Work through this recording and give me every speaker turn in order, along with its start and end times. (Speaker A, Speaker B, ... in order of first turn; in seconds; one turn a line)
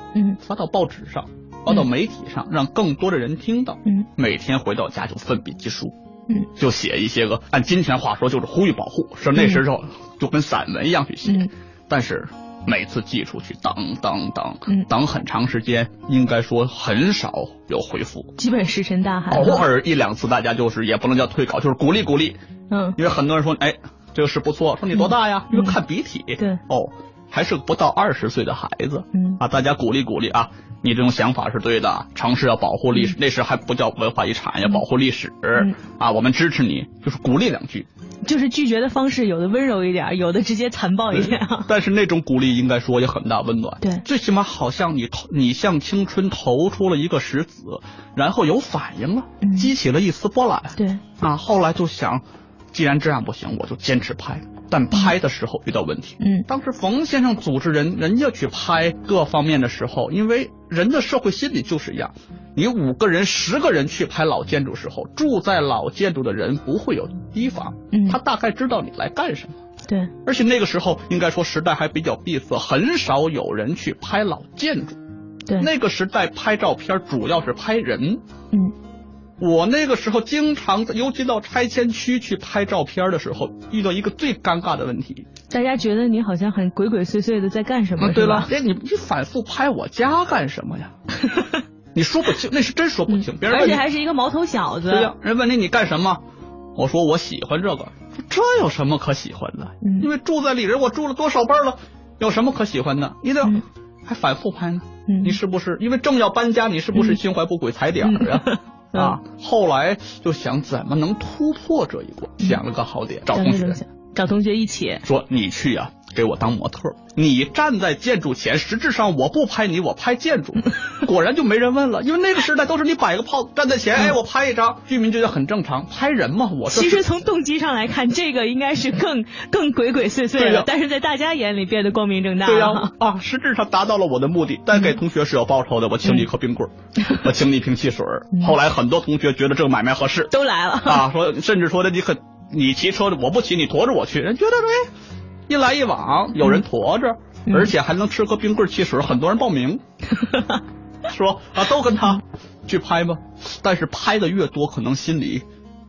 Speaker A: 0.4-6.0
Speaker A: 6.5-18.3
Speaker B: 9.3-9.6
Speaker B: 11.2-11.5
Speaker B: 18.4-19.6
Speaker A: 19.3-22.4
Speaker B: 22.7-23.0
Speaker A: 22.9-37.9
Speaker B: 25.0-25.8
Speaker B: 29.1-29.4
Speaker B: 38.2-41.7
Speaker A: 41.1-69.6
Speaker B: 49.4-49.7
Speaker B: 50.8-51.0
Speaker B: 56.2-56.5
Speaker B: 67.9-68.2
Speaker A: 70.2-75.0
Speaker A: 75.6-78.2
Speaker A: 79.4-85.3
Speaker B: 85.5-88.5
Speaker A: 88.0-90.9
Speaker B: 91.2-91.6
Speaker A: 91.9-93.8
Speaker B: 93.1-95.1
Speaker A: 94.9-96.2
Speaker A: 96.7-113.8
Speaker B: 99.8-100.1
Speaker B: 105.1-105.4
Speaker B: 108.1-109.2
Speaker B: 113.3-115.0
Speaker A: 115.0-127.0
Speaker B: 126.7-132.9
Speaker A: 130.3-130.7
Speaker A: 132.4-144.9
Speaker B: 140.3-141.1
Speaker A: 145.5-149.8
Speaker B: 147.5-147.7
Speaker B: 150.2-150.6
Speaker A: 151.1-155.4